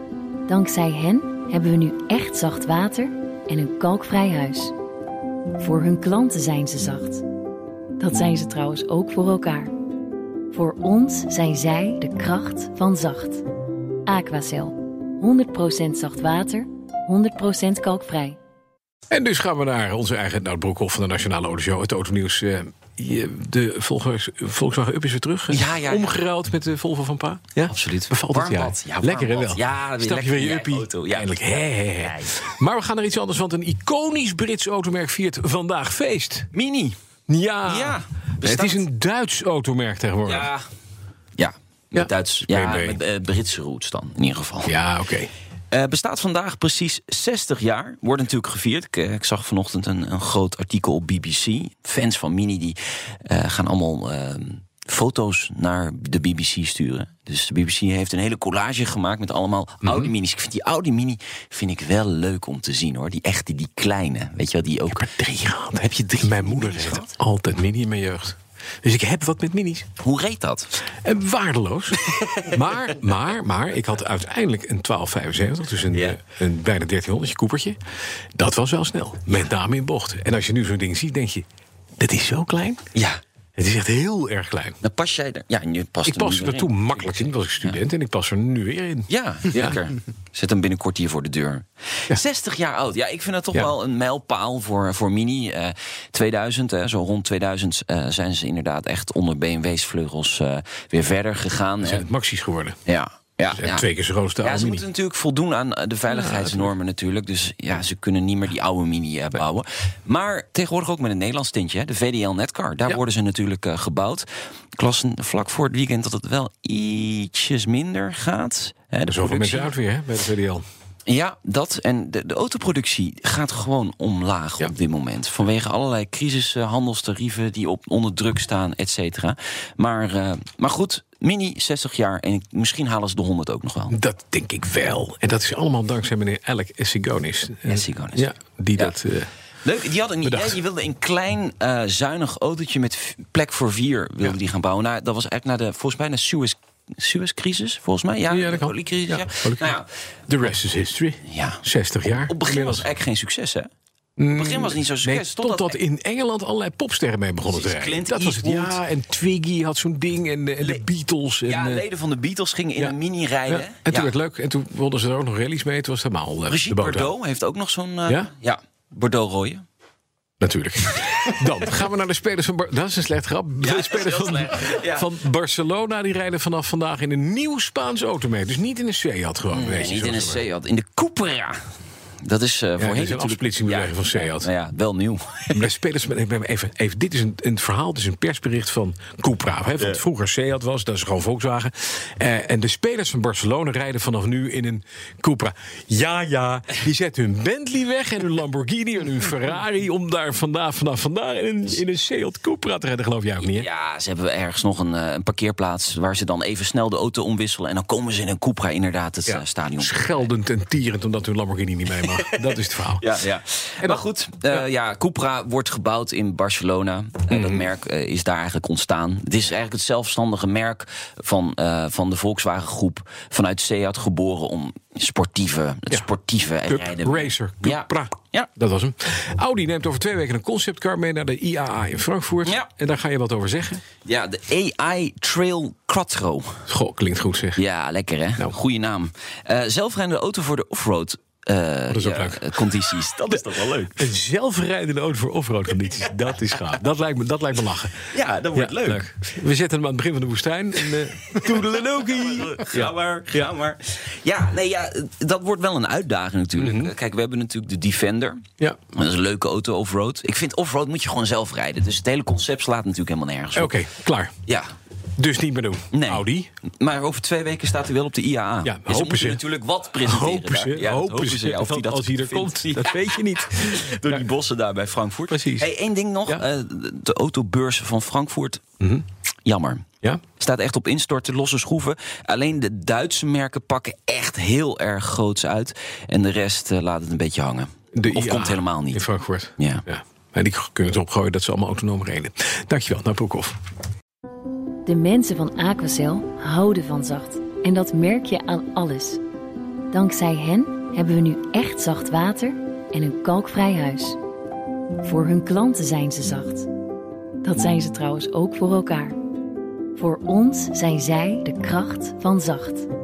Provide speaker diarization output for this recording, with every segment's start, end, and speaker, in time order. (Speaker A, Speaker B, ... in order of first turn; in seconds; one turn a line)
Speaker A: 0.5-4.7
Speaker A: 5.6-7.2
Speaker A: 8.0-9.7
Speaker A: 10.5-13.4
Speaker A: 14.1-18.4
Speaker B: 19.1-36.5
Speaker C: 25.5-26.2
Speaker C: 27.7-31.5
Speaker C: 32.0-32.5
Speaker C: 36.5-37.0
Speaker B: 37.3-40.5
Speaker C: 37.7-38.9
Speaker C: 40.3-40.6
Speaker C: 41.4-44.7
Speaker B: 41.9-43.0
Speaker B: 44.6-45.3
Speaker C: 45.7-65.2
Speaker B: 59.8-60.1
Speaker B: 64.9-69.9
Speaker C: 65.8-67.2
Speaker C: 70.0-70.7
Speaker B: 71.0-77.8
Speaker C: 75.9-76.2
Speaker B: 78.4-81.5
Speaker B: 82.0-82.8
Speaker C: 82.9-83.2
Speaker B: 83.6-84.8
Speaker C: 84.8-87.8
Speaker B: 86.1-89.8
Speaker C: 89.1-102.1
Speaker B: 101.8-102.8
Speaker C: 102.9-103.9
Speaker B: 103.5-104.8
Speaker C: 104.4-119.7
Speaker B: 106.1-106.7
Speaker B: 119.1-120.7
Speaker C: 121.1-133.9
Speaker B: 133.9-139.3
Speaker C: 137.7-139.0
Speaker C: 139.6-149.9
Speaker B: 140.2-140.6
Speaker B: 148.3-149.8
Speaker B: 150.3-152.9
Speaker C: 151.3-153.7
Speaker B: 154.2-161.9
Speaker C: 154.3-155.8
Speaker C: 157.5-158.8
Speaker C: 161.5-164.1
Speaker B: 162.8-167.1
Speaker C: 166.5-169.7
Speaker B: 170.4-180.4
Speaker C: 173.6-175.1
Speaker C: 179.5-181.6
Speaker C: 182.2-185.7
Speaker B: 182.8-184.5
Speaker B: 185.5-203.7
Speaker C: 203.4-210.3
Speaker B: 209.3-213.0
Speaker C: 212.0-212.5
Speaker C: 213.0-228.5
Speaker B: 213.8-214.6
Speaker B: 217.3-217.7
Speaker B: 226.7-233.8
Speaker C: 234.1-236.6
Speaker B: 236.7-237.6
Speaker C: 237.6-244.1
Speaker B: 241.9-242.6
Speaker B: 244.0-251.4
Speaker C: 248.1-249.1
Speaker C: 251.3-263.8
Speaker B: 252.7-252.9
Speaker B: 256.6-256.9
Speaker B: 263.6-264.3
Speaker B: 265.2-266.5
Speaker C: 265.9-266.3
Speaker C: 266.8-278.6
Speaker B: 268.6-269.4
Speaker B: 270.0-274.3
Speaker B: 275.3-275.7
Speaker B: 278.8-279.1
Speaker C: 279.5-279.9
Speaker C: 280.4-289.0
Speaker B: 287.9-293.6
Speaker A: 294.9-299.2
Speaker A: 299.9-304.2
Speaker A: 305.0-306.7
Speaker A: 307.4-309.2
Speaker A: 310.0-312.9